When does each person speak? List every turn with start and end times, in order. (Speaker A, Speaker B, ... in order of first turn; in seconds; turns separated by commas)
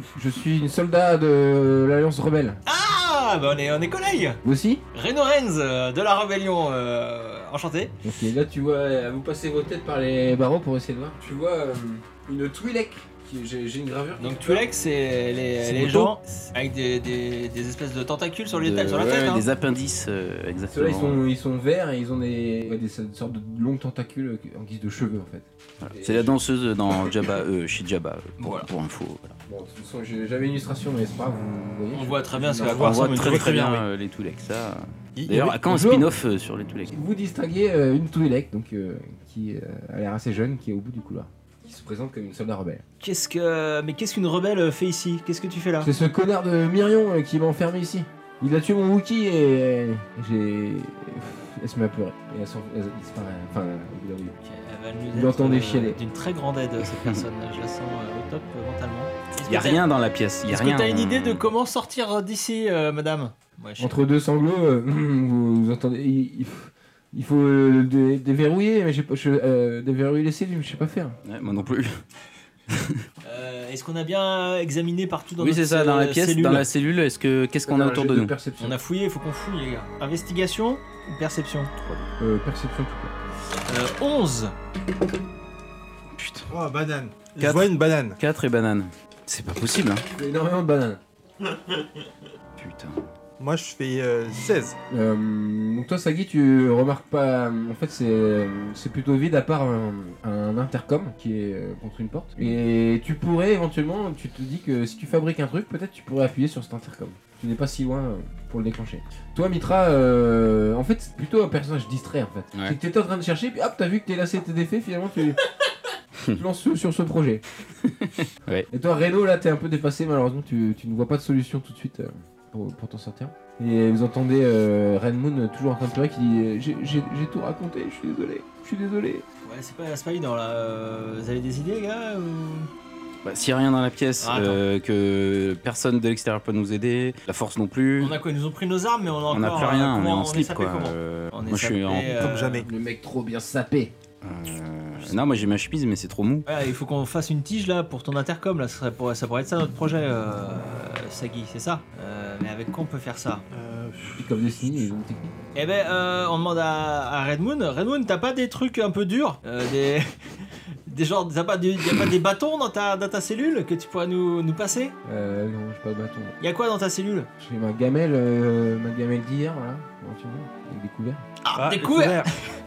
Speaker A: 0.1-2.6, Speaker B: 2.6-4.4, Speaker A: 4.4-4.8, Speaker B: 4.9-7.9, Speaker A: 8.0-14.6, Speaker B: 14.2-19.4, Speaker A: 15.6-16.1, Speaker C: 18.6-21.2, Speaker A: 20.7-26.4, Speaker C: 25.8-29.3, Speaker B: 28.4-28.7, Speaker A: 29.5-33.1, Speaker B: 31.9-33.8, Speaker D: 32.6-33.5, Speaker C: 32.8-36.9, Speaker D: 35.2-35.6, Speaker A: 35.5-36.1, Speaker A: 36.9-42.8, Speaker B: 43.0-45.9, Speaker A: 45.8-54.4, Speaker B: 54.4-59.8, Speaker A: 55.1-56.0, Speaker C: 56.8-57.2, Speaker C: 59.4-61.5, Speaker B: 60.5-64.0, Speaker A: 63.8-71.2, Speaker C: 71.2-72.0, Speaker C: 72.7-73.0, Speaker B: 73.2-76.7, Speaker C: 75.4-78.3, Speaker A: 77.7-78.8, Speaker B: 78.6-81.7, Speaker C: 81.8-82.1, Speaker A: 82.2-83.1, Speaker B: 83.7-84.5, Speaker C: 86.1-86.5, Speaker D: 86.5-88.2, Speaker C: 87.3-90.0, Speaker A: 90.1-91.0, Speaker C: 92.6-93.0, Speaker D: 93.4-94.8, Speaker A: 94.9-115.4, Speaker A: 116.3-117.4, Speaker C: 117.8-118.7, Speaker A: 118.7-129.2, Speaker B: 129.4-132.7, Speaker C: 133.2-138.2, Speaker B: 134.2-134.6, Speaker B: 138.0-142.6, Speaker C: 139.3-142.2, Speaker D: 142.0-142.7, Speaker A: 142.4-143.9, Speaker C: 144.2-146.5, Speaker B: 146.4-153.4, Speaker D: 153.5-154.9, Speaker A: 154.2-155.3, Speaker B: 155.5-160.1, Speaker B: 160.9-164.9, Speaker A: 165.1-166.3, Speaker B: 166.4-167.3, Speaker A: 167.4-171.2, Speaker B: 171.4-172.4, Speaker D: 171.5-172.3